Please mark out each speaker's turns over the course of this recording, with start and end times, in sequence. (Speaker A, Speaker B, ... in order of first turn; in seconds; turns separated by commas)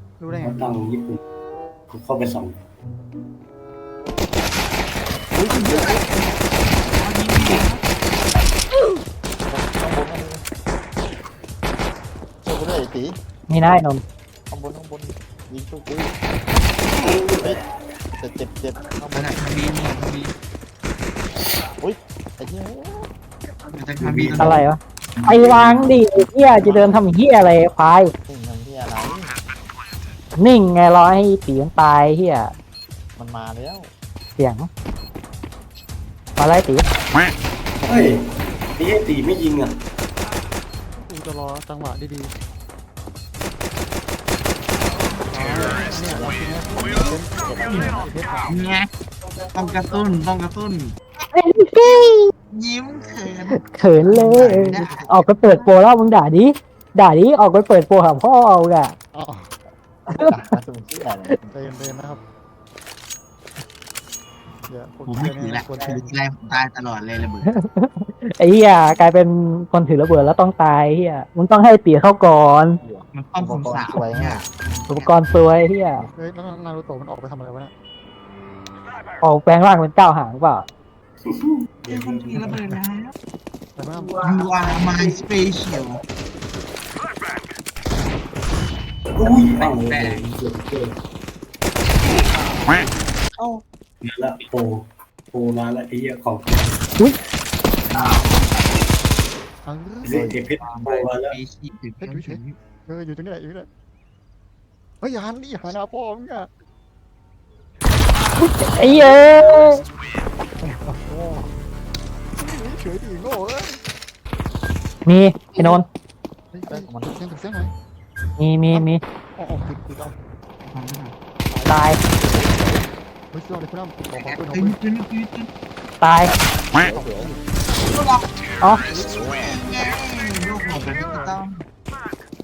Speaker A: 0.2-0.8, Speaker B: 0.3-1.2, Speaker B: 1.9-2.6, Speaker C: 5.3-6.1, Speaker D: 5.5-7.8, Speaker C: 9.5-10.4, Speaker C: 12.4-13.2, Speaker E: 13.5-14.0, Speaker C: 14.5-16.2, Speaker C: 17.0-17.6, Speaker C: 18.1-19.5, Speaker D: 19.1-20.3, Speaker C: 21.8-23.1, Speaker D: 23.7-24.6, Speaker B: 24.0-24.6, Speaker E: 24.4-28.1, Speaker C: 28.3-29.4, Speaker E: 30.4-32.5, Speaker C: 33.2-33.9, Speaker E: 34.4-34.7, Speaker E: 36.4-36.9, Speaker C: 37.8-38.1, Speaker B: 37.9-39.7, Speaker A: 40.9-42.3, Speaker A: 45.3-48.6, Speaker C: 47.4-48.1, Speaker D: 48.4-48.9, Speaker D: 49.5-51.0, Speaker E: 51.3-52.3, Speaker D: 52.5-55.7, Speaker C: 52.9-53.2, Speaker E: 53.5-59.0, Speaker C: 54.6-55.0, Speaker A: 59.1-59.5, Speaker C: 60.0-61.7, Speaker A: 61.5-62.2, Speaker A: 64.7-66.1, Speaker D: 65.1-67.5, Speaker E: 67.4-72.8, Speaker C: 72.8-74.5, Speaker D: 73.1-75.1, Speaker E: 74.9-76.0, Speaker A: 76.2-77.7, Speaker E: 79.2-80.7, Speaker B: 81.2-82.7, Speaker D: 81.9-83.1, Speaker A: 83.8-84.2, Speaker D: 84.2-86.0, Speaker B: 89.1-90.9, Speaker D: 89.4-90.2, Speaker C: 93.4-93.6, Speaker B: 94.0-96.8, Speaker D: 97.9-98.3, Speaker A: 99.6-100.2, Speaker B: 100.0-101.4, Speaker C: 100.1-100.4, Speaker D: 100.6-102.6, Speaker A: 102.0-103.7, Speaker A: 105.0-106.5, Speaker E: 108.4-109.8, Speaker A: 110.6-111.5, Speaker A: 112.4-113.8, Speaker E: 115.0-115.8, Speaker A: 116.5-117.7, Speaker C: 116.7-117.2, Speaker E: 118.4-119.0, Speaker A: 118.7-120.2, Speaker D: 120.6-121.1, Speaker A: 121.5-122.1, Speaker E: 121.7-122.0, Speaker C: 122.1-122.9, Speaker A: 123.3-124.8, Speaker D: 124.2-125.5, Speaker E: 126.0-126.3, Speaker C: 126.7-127.4, Speaker A: 127.0-127.3, Speaker D: 127.8-128.3, Speaker D: 128.8-131.6, Speaker C: 128.9-129.6